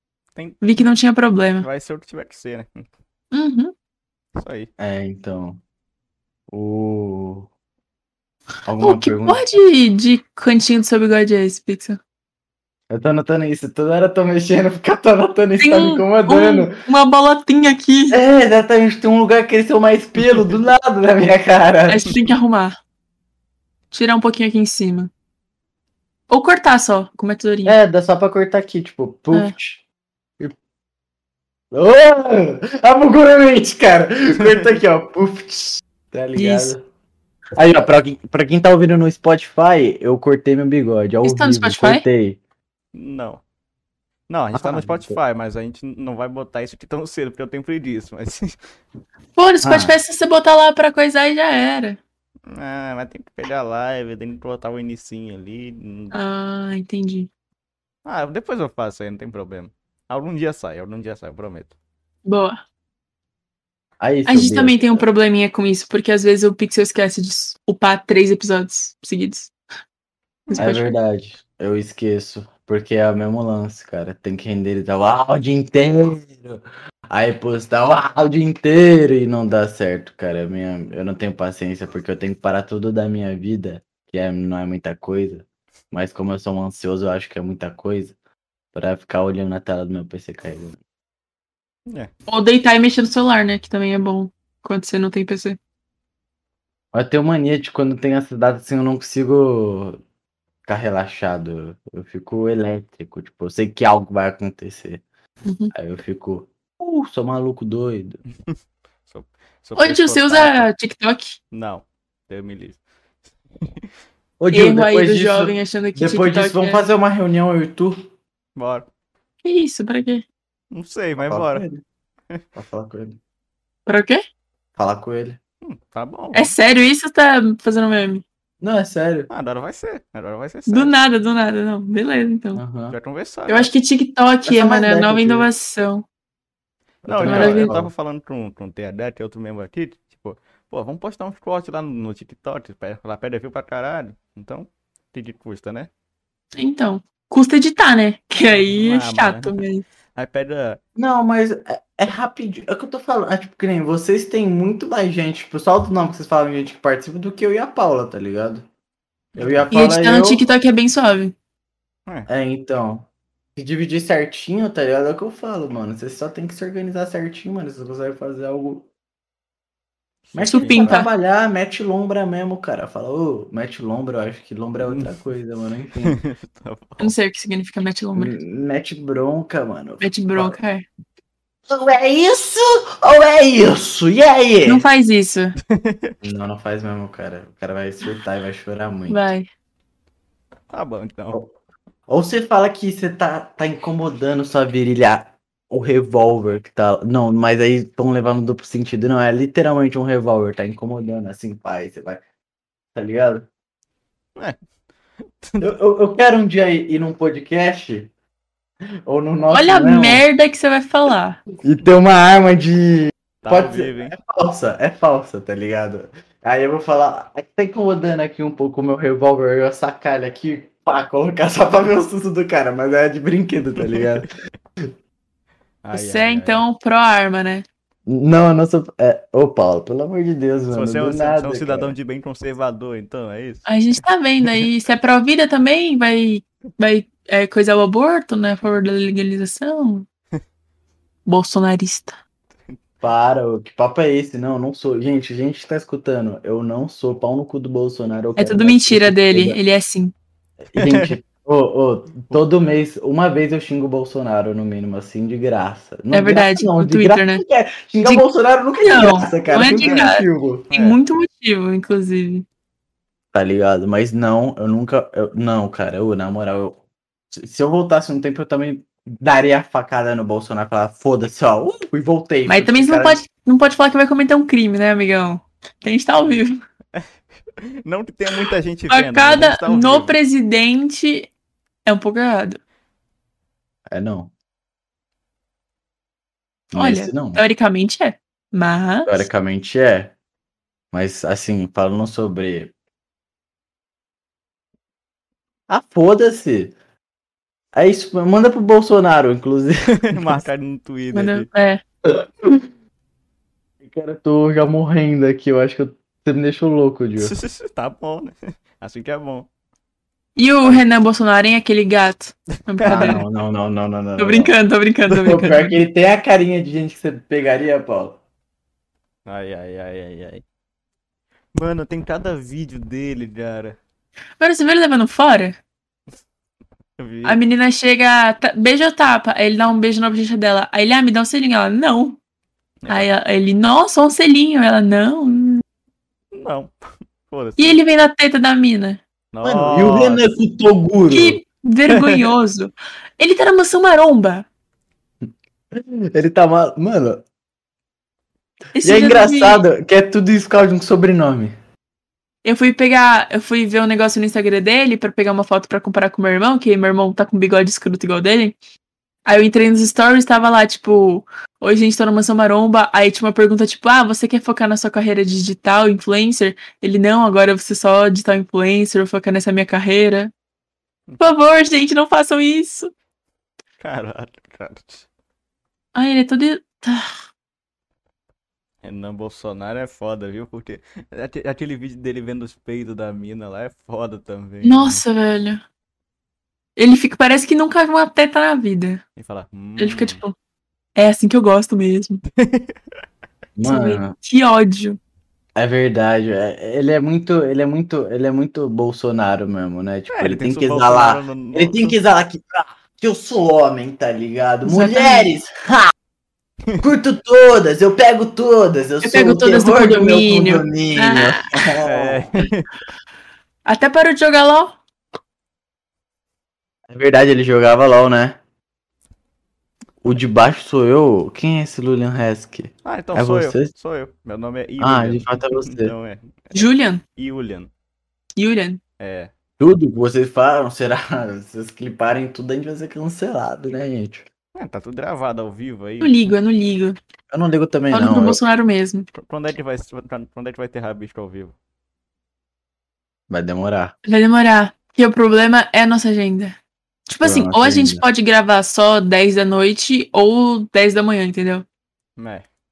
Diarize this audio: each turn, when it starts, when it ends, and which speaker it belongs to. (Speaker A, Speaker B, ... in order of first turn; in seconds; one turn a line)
Speaker A: 0.3-0.6
Speaker B: 0.6-1.7
Speaker A: 1.6-2.9
Speaker B: 3.3-3.7
Speaker A: 4.4-4.7
Speaker C: 4.8-5.6
Speaker C: 6.5-7.5
Speaker C: 8.7-9.4
Speaker B: 8.8-12.0
Speaker C: 12.9-16.8
Speaker B: 15.6-18.2
Speaker C: 18.1-22.2
Speaker A: 20.2-20.4
Speaker B: 21.9-22.8
Speaker B: 23.9-25.1
Speaker B: 26.3-27.8
Speaker C: 27.6-29.8
Speaker C: 31.7-36.8
Speaker A: 34.4-34.8
Speaker B: 36.4-36.7
Speaker C: 37.6-42.4
Speaker B: 41.2-42.0
Speaker A: 42.9-43.4
Speaker A: 44.3-48.6
Speaker C: 44.5-45.2
Speaker B: 49.4-52.0
Speaker C: 49.6-50.0
Speaker A: 52.5-56.1
Speaker B: 56.1-57.3
Speaker A: 58.0-61.7
Speaker B: 62.2-62.6
Speaker C: 64.0-65.0
Speaker B: 64.3-69.5
Speaker A: 70.5-70.7
Speaker B: 70.5-70.9
Speaker C: 70.6-88.2
Speaker C: 88.7-90.8
Speaker B: 92.3-95.6
Speaker C: 96.9-100.0
Speaker C: 100.7-105.0
Speaker B: 105.5-105.7
Speaker C: 105.7-108.2
Speaker A: 108.5-110.7
Speaker B: 109.8-111.4
Speaker A: 111.5-112.8
Speaker A: 113.6-113.9
Speaker C: 114.4-118.1
Speaker B: 114.5-116.8
Speaker A: 118.6-118.9
Speaker B: 119.4-120.2
Speaker A: 120.7-121.7
Speaker C: 121.2-121.8
Speaker C: 122.5-123.2
Speaker B: 123.9-124.2
Speaker C: 124.8-125.4
Speaker A: 125.6-126.5
Speaker B: 126.3-128.2
Speaker C: 128.6-129.3
Speaker A: 129.3-130.9
Speaker B: 130.7-132.6
Speaker C: 132.6-132.9
Speaker A: 132.9-133.7
Speaker B: 133.5-136.1
Speaker C: 134.5-135.5
Speaker C: 137.1-137.9
Speaker A: 137.1-145.9
Speaker B: 137.2-137.7
Speaker B: 146.6-149.8
Speaker A: 148.4-149.5
Speaker A: 150.2-150.8
Speaker C: 151.0-158.7
Speaker A: 159.4-159.7
Speaker C: 159.4-160.4
Speaker B: 159.7-161.3
Speaker C: 162.3-168.9
Speaker A: 170.3-171.0
Speaker C: 170.3-176.2
Speaker B: 170.5-171.1
Speaker A: 174.8-175.1
Speaker A: 176.0-177.1
Speaker B: 177.0-178.3
Speaker C: 178.2-180.6
Speaker B: 180.0-180.8
Speaker C: 181.7-184.8
Speaker B: 184.7-185.6
Speaker A: 185.7-186.2
Speaker C: 186.2-189.2
Speaker B: 189.1-189.5
Speaker A: 190.7-191.4
Speaker C: 192.1-202.2
Speaker C: 202.9-203.5
Speaker A: 205.2-205.7
Speaker C: 205.6-208.1
Speaker C: 209.1-210.2
Speaker B: 209.5-211.4
Speaker C: 211.6-224.3
Speaker A: 213.4-214.2
Speaker A: 223.8-224.2
Speaker A: 225.8-226.6
Speaker B: 225.9-227.7
Speaker C: 228.1-231.9
Speaker A: 230.7-233.7
Speaker B: 233.7-240.1
Speaker A: 234.4-234.7
Speaker B: 241.3-242.2
Speaker C: 243.0-249.6
Speaker B: 248.4-250.1
Speaker C: 250.7-260.7
Speaker A: 250.8-251.2
Speaker B: 256.1-257.4
Speaker B: 258.8-262.4
Speaker A: 259.6-260.1
Speaker A: 260.7-261.0
Speaker C: 263.3-266.8
Speaker C: 267.3-273.2
Speaker B: 272.5-276.6
Speaker A: 277.8-280.1
Speaker B: 278.9-281.3
Speaker B: 281.9-282.6
Speaker C: 283.9-284.3
Speaker C: 286.7-287.4
Speaker B: 286.8-289.3
Speaker C: 289.1-290.1
Speaker C: 290.9-292.7
Speaker C: 295.7-296.8
Speaker C: 297.8-300.4
Speaker A: 300.1-301.5
Speaker B: 301.1-301.8
Speaker C: 302.1-302.7
Speaker C: 303.8-307.3
Speaker A: 307.2-309.5
Speaker B: 310.4-313.2
Speaker A: 312.8-313.2
Speaker C: 312.9-314.6
Speaker B: 314.2-315.8
Speaker A: 315.1-315.5
Speaker C: 315.2-318.2
Speaker A: 319.3-320.4
Speaker A: 321.6-323.8
Speaker B: 324.4-325.6
Speaker A: 327.0-327.4
Speaker B: 327.2-332.2
Speaker A: 332.8-333.1
Speaker B: 332.9-335.6
Speaker A: 336.3-336.7
Speaker A: 337.3-337.8
Speaker B: 337.6-339.0
Speaker A: 339.3-340.2
Speaker C: 339.4-341.4
Speaker B: 341.1-344.5
Speaker A: 341.9-342.3
Speaker C: 345.3-347.2
Speaker B: 348.8-349.6
Speaker C: 348.8-351.6
Speaker B: 352.4-358.6
Speaker B: 359.3-370.3
Speaker B: 371.2-372.9
Speaker A: 373.8-375.1
Speaker B: 375.9-377.1
Speaker A: 378.8-385.0
Speaker B: 384.6-385.6
Speaker B: 386.8-389.0
Speaker A: 389.2-390.2
Speaker B: 389.8-390.4
Speaker B: 391.0-392.2
Speaker A: 392.4-392.8
Speaker C: 393.6-394.1
Speaker B: 393.6-395.0
Speaker C: 395.6-405.9
Speaker A: 400.1-402.0
Speaker B: 404.6-405.3
Speaker C: 406.8-412.3
Speaker B: 409.0-411.7
Speaker A: 411.8-412.7
Speaker B: 413.7-414.8
Speaker C: 416.9-418.4
Speaker C: 420.0-423.7
Speaker A: 422.8-427.7
Speaker C: 424.8-425.9
Speaker B: 426.5-427.0
Speaker B: 428.4-428.8
Speaker A: 429.0-429.3
Speaker C: 429.6-434.3
Speaker A: 434.6-436.2
Speaker B: 436.0-437.0
Speaker C: 437.3-438.4
Speaker B: 437.9-439.1
Speaker A: 439.1-441.6
Speaker C: 443.3-443.9
Speaker B: 444.1-446.6
Speaker B: 447.1-451.6
Speaker C: 447.2-448.0
Speaker A: 452.2-452.5